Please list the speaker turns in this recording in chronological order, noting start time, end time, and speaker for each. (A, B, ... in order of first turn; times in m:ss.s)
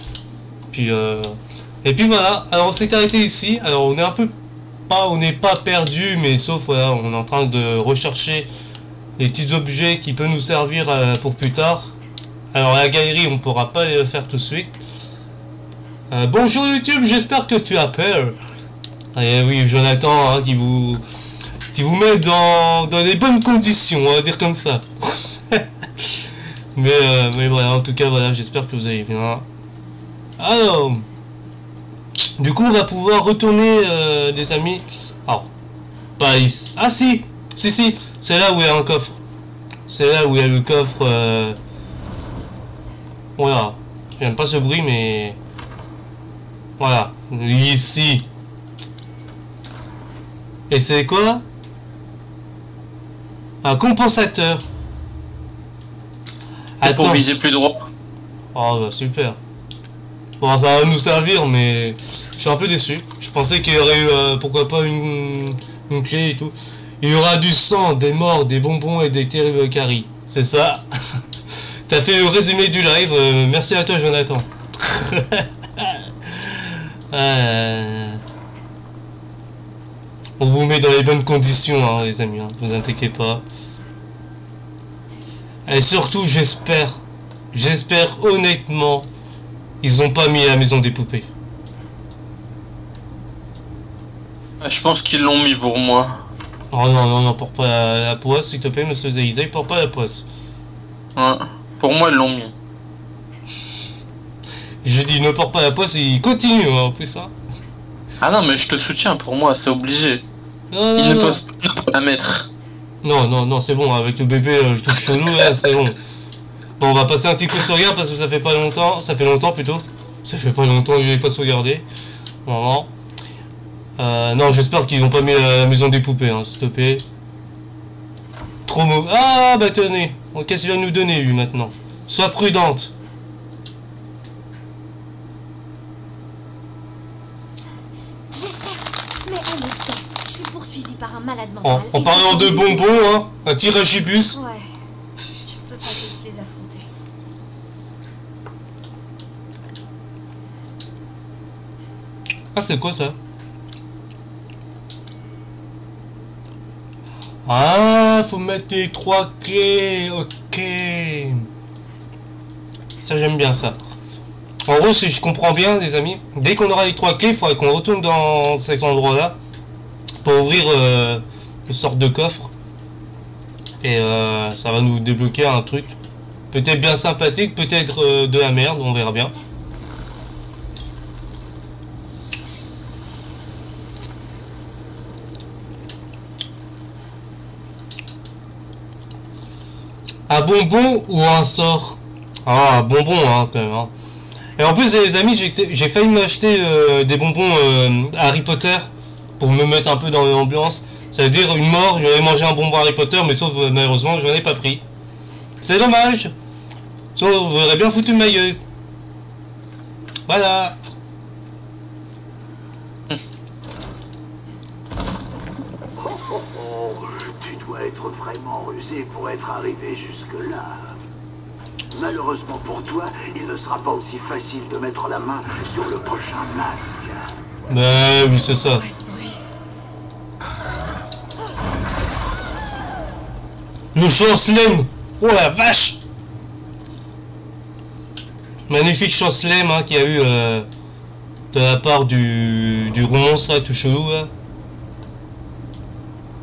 0:00.7-0:04.3 A
0:04.9-0:08.5 A
0:09.2-0:11.9 A
0:12.5-0:14.8 A
0:16.1-0:18.4 A
0:19.1-0:21.0 A
0:21.7-0:26.2 A
0:26.7-0:29.4 A
0:30.4-0:31.0 A
0:32.4-0:35.5 A
0:36.2-0:39.2 A
0:39.9-0:41.6 A
0:43.4-0:45.4 A
0:46.8-0:48.3 A
0:50.7-0:51.4 A
0:53.6-0:54.6 A
0:56.8-0:57.3 A
0:56.8-0:57.9 B
0:58.5-0:59.4 A
1:00.4-1:11.2 A
1:11.9-1:18.2 A
1:20.4-1:23.4 A
1:25.7-1:29.1 A
1:29.8-1:31.3 A
1:34.6-1:36.2 B
1:36.7-1:40.3 A
1:41.2-1:42.5 B
1:44.8-1:47.3 A
1:48.2-1:50.2 B
1:50.7-1:51.4 A
1:51.0-1:52.5 B
1:53.0-1:56.0 A
1:56.8-2:01.8 A
2:02.4-2:02.9 A
2:04.0-2:07.0 A
2:08.7-2:12.9 A
2:18.3-2:22.9 C
2:21.6-2:24.4 A
2:24.3-2:26.9 C
2:32.5-2:33.2 A
2:37.4-2:41.5 A
2:43.0-2:43.8 A
2:44.6-2:49.4 A
2:50.2-2:52.5 A
2:53.8-2:56.0 A
2:56.5-2:59.3 A
3:10.3-3:13.9 A
3:14.6-3:24.8 A
3:25.6-3:26.3 A
3:27.1-3:28.6 A
3:30.3-3:30.8 A
3:36.0-3:41.0 D
3:41.9-3:47.3 D
3:47.7-3:48.8 A
3:48.8-3:49.4 C
3:53.9-3:56.0 A
3:58.7-4:00.7 A
4:01.5-4:04.3 A